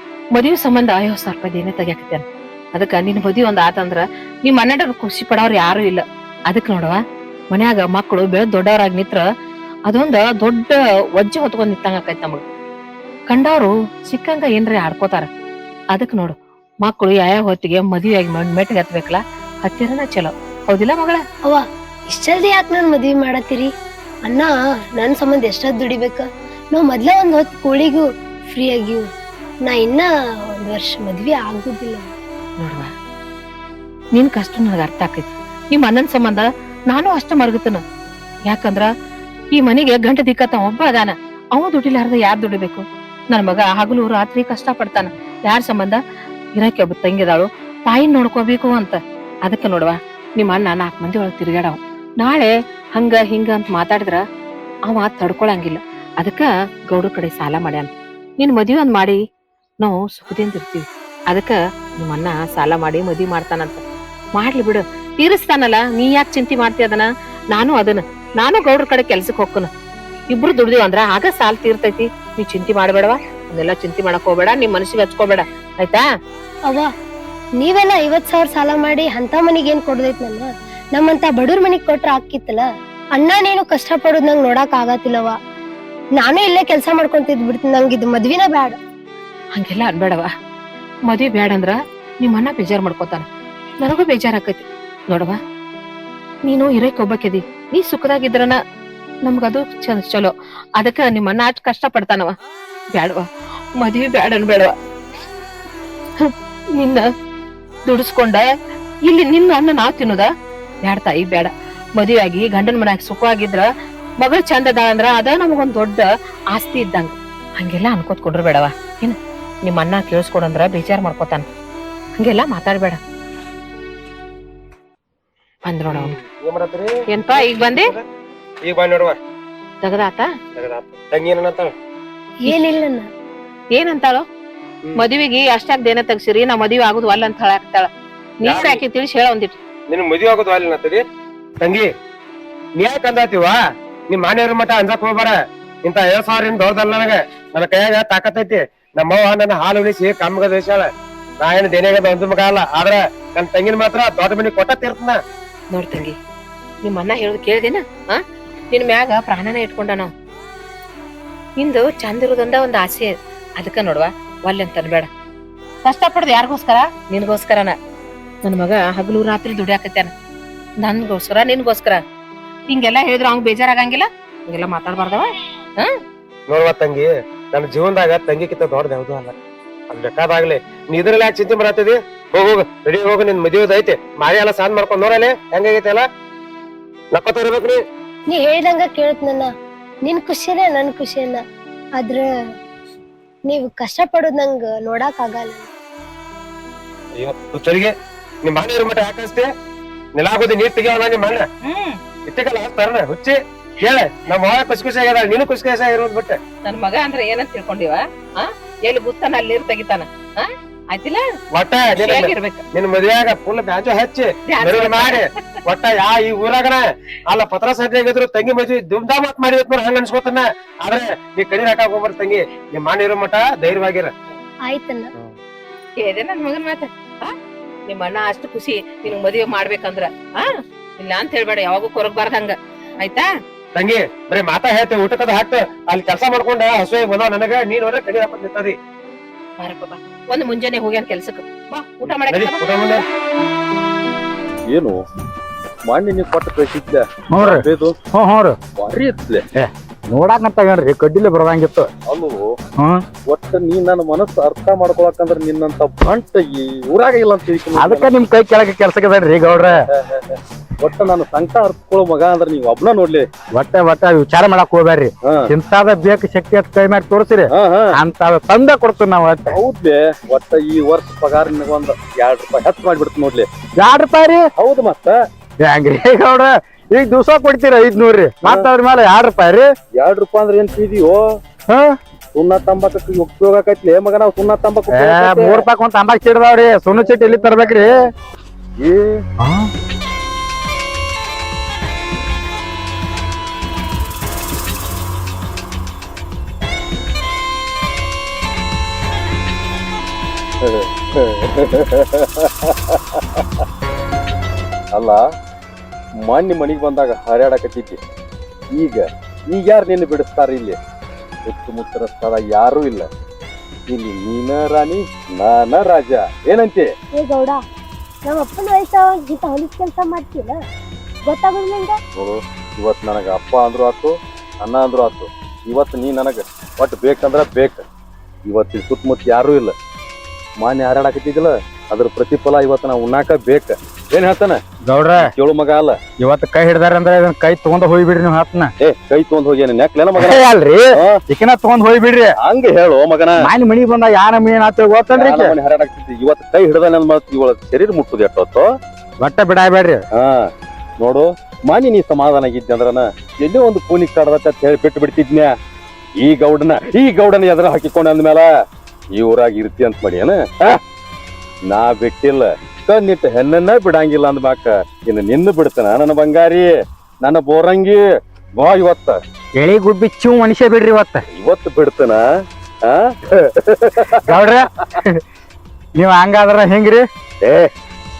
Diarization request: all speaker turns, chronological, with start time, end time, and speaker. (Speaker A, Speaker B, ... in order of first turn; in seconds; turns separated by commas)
Speaker A: 0.3-7.0, Speaker A: 7.5-9.2, Speaker A: 9.9-12.4, Speaker A: 13.3-15.3, Speaker A: 15.9-21.2, Speaker B: 21.4-23.7, Speaker B: 24.3-29.0, Speaker B: 29.6-30.1, Speaker B: 30.6-32.1, Speaker A: 32.6-32.9, Speaker A: 34.1-37.8, Speaker A: 38.5-38.9, Speaker A: 39.5-46.0, Speaker A: 46.6-54.2, Speaker A: 54.9-59.2, Speaker A: 59.8-63.8, Speaker A: 64.3-69.7, Speaker A: 70.3-76.0, Speaker B: 77.6-82.6, Speaker B: 83.2-85.3, Speaker B: 86.2-88.8, Speaker A: 89.6-90.3, Speaker A: 91.1-93.2, Speaker A: 93.8-95.4, Speaker A: 96.4-98.6, Speaker A: 99.2-102.3, Speaker A: 102.9-103.2, Speaker A: 103.8-104.7, Speaker A: 106.2-107.0, Speaker A: 107.8-108.5, Speaker A: 109.0-110.3, Speaker A: 110.8-113.7, Speaker A: 114.2-121.5, Speaker A: 122.2-123.0, Speaker A: 125.7-126.1, Speaker C: 125.9-128.0, Speaker A: 127.1-127.9, Speaker C: 128.6-129.2, Speaker A: 129.8-130.3, Speaker C: 130.6-131.7, Speaker B: 132.4-133.1, Speaker A: 133.7-134.2, Speaker A: 134.9-137.9, Speaker A: 138.4-139.6, Speaker C: 138.4-138.8, Speaker C: 139.9-141.0, Speaker C: 141.6-141.9, Speaker C: 142.8-143.6, Speaker C: 144.1-150.8, Speaker C: 151.4-155.2, Speaker A: 155.7-156.1, Speaker A: 156.8-158.2, Speaker A: 158.7-160.1, Speaker A: 161.6-165.1, Speaker A: 165.8-167.8, Speaker A: 168.4-170.1, Speaker A: 170.8-172.0, Speaker A: 172.7-175.9, Speaker C: 176.5-179.3, Speaker C: 179.9-186.0, Speaker C: 187.1-187.8, Speaker B: 188.3-189.5, Speaker B: 190.0-191.4, Speaker B: 192.0-192.2, Speaker B: 193.5-195.7, Speaker C: 197.2-199.5, Speaker C: 200.2-201.4, Speaker A: 201.6-202.0, Speaker C: 202.2-206.4, Speaker A: 206.6-211.2, Speaker C: 211.5-224.1, Speaker A: 211.9-212.6, Speaker A: 214.5-215.3, Speaker B: 224.7-225.1, Speaker A: 226.0-227.3, Speaker A: 227.9-233.3, Speaker C: 233.7-238.7, Speaker A: 239.6-243.0, Speaker C: 242.3-243.0, Speaker D: 244.7-245.0, Speaker D: 245.8-247.9, Speaker E: 247.3-248.6, Speaker D: 248.7-249.4, Speaker E: 249.6-251.9, Speaker D: 252.1-252.5, Speaker D: 253.2-258.2, Speaker E: 257.7-259.8, Speaker D: 259.6-263.2, Speaker E: 263.5-269.6, Speaker D: 265.2-265.5, Speaker D: 267.5-267.9, Speaker D: 269.5-273.5, Speaker E: 273.8-274.4, Speaker D: 274.6-275.1, Speaker E: 275.6-279.7, Speaker D: 279.9-281.2, Speaker E: 281.7-281.9, Speaker D: 282.3-285.6, Speaker E: 284.9-287.9, Speaker D: 288.8-289.2, Speaker E: 289.4-289.7, Speaker D: 300.6-303.4, Speaker D: 304.9-305.2, Speaker D: 306.2-308.0, Speaker D: 308.7-310.8, Speaker D: 311.4-313.1, Speaker D: 313.9-316.9, Speaker B: 317.2-317.6, Speaker B: 318.2-320.6, Speaker B: 321.2-321.9, Speaker D: 322.2-327.8, Speaker D: 328.4-329.7, Speaker D: 330.6-334.6, Speaker E: 334.9-335.3, Speaker D: 335.2-336.0, Speaker E: 336.2-338.7, Speaker D: 338.8-340.4, Speaker E: 340.2-342.3, Speaker D: 342.4-343.3, Speaker E: 343.4-345.6, Speaker D: 345.1-348.7, Speaker E: 349.2-350.0, Speaker D: 350.1-350.4, Speaker D: 351.0-355.5, Speaker D: 356.2-358.5, Speaker D: 359.1-360.8, Speaker D: 361.7-366.7, Speaker D: 367.2-368.0, Speaker D: 368.5-369.2, Speaker E: 369.6-371.2, Speaker D: 371.3-372.2, Speaker D: 372.8-374.2, Speaker E: 374.2-375.2, Speaker E: 375.9-377.0, Speaker D: 377.4-377.7